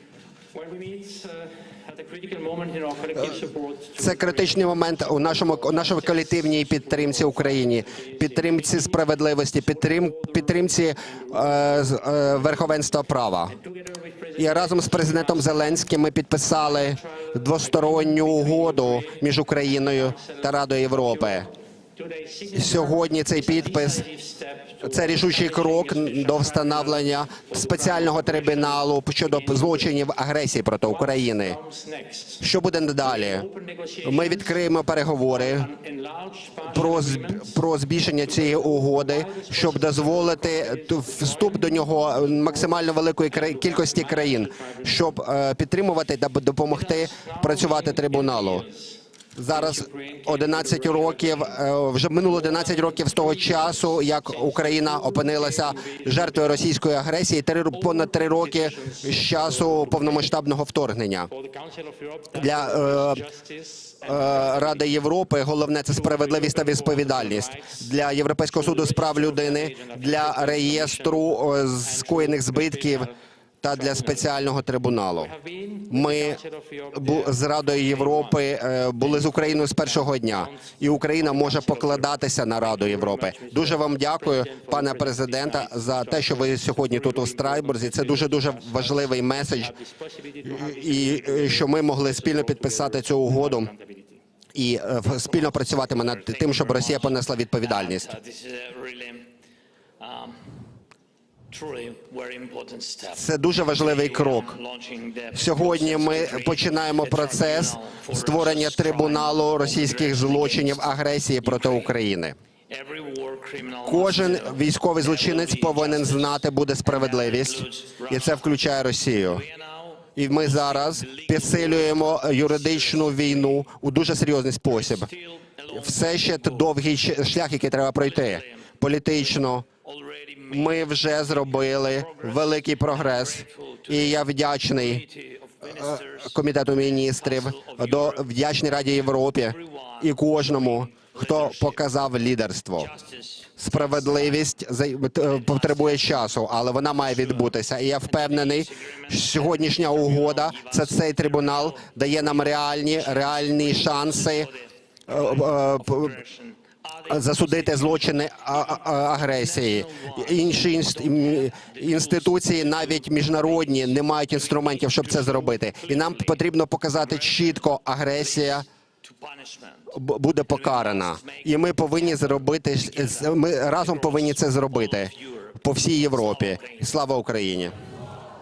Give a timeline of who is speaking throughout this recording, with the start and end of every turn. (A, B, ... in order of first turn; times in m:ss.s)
0:00.5-0:09.0 A
0:03.2-0:03.4 B
0:04.0-0:13.5 B
0:09.6-0:12.8 A
0:13.5-0:15.9 A
0:14.4-0:21.5 B
0:16.5-0:29.9 A
0:22.5-0:24.0 B
0:24.8-0:31.6 B
0:30.8-0:32.5 A
0:32.4-0:33.5 B
0:33.0-0:34.7 A
0:34.0-0:35.7 B
0:35.3-0:37.6 A
0:36.6-0:48.6 B
0:38.2-0:45.1 A
0:46.7-0:51.6 A
0:49.4-1:01.3 B
0:52.3-0:56.7 A
0:57.7-1:00.3 A
1:01.3-1:04.9 A
1:02.3-1:03.2 B
1:04.0-1:13.1 B
1:05.9-1:07.9 A
1:08.5-1:13.2 A
1:13.6-1:15.3 B
1:13.7-1:14.3 A
1:15.2-1:18.4 A
1:15.9-1:16.4 B
1:16.9-1:29.7 B
1:19.0-1:34.2 A
1:30.4-1:33.7 B
1:34.5-1:38.1 B
1:35.5-1:39.3 A
1:40.0-1:40.5 A
1:41.5-1:52.0 A
1:43.1-1:44.6 B
1:45.3-1:52.4 B
1:52.7-1:58.5 A
1:53.8-1:59.4 B
1:59.2-2:03.6 A
2:00.2-2:05.1 B
2:04.7-2:06.8 A
2:05.7-2:09.6 B
2:08.0-2:18.3 A
2:10.5-2:15.0 B
2:15.6-2:22.9 B
2:18.9-2:21.9 A
2:22.8-2:24.4 A
2:23.6-2:34.5 B
2:25.2-2:26.4 A
2:26.9-2:49.9 A
2:35.1-2:36.2 B
2:37.1-2:48.7 B
2:49.9-2:57.7 B
2:50.5-2:57.0 A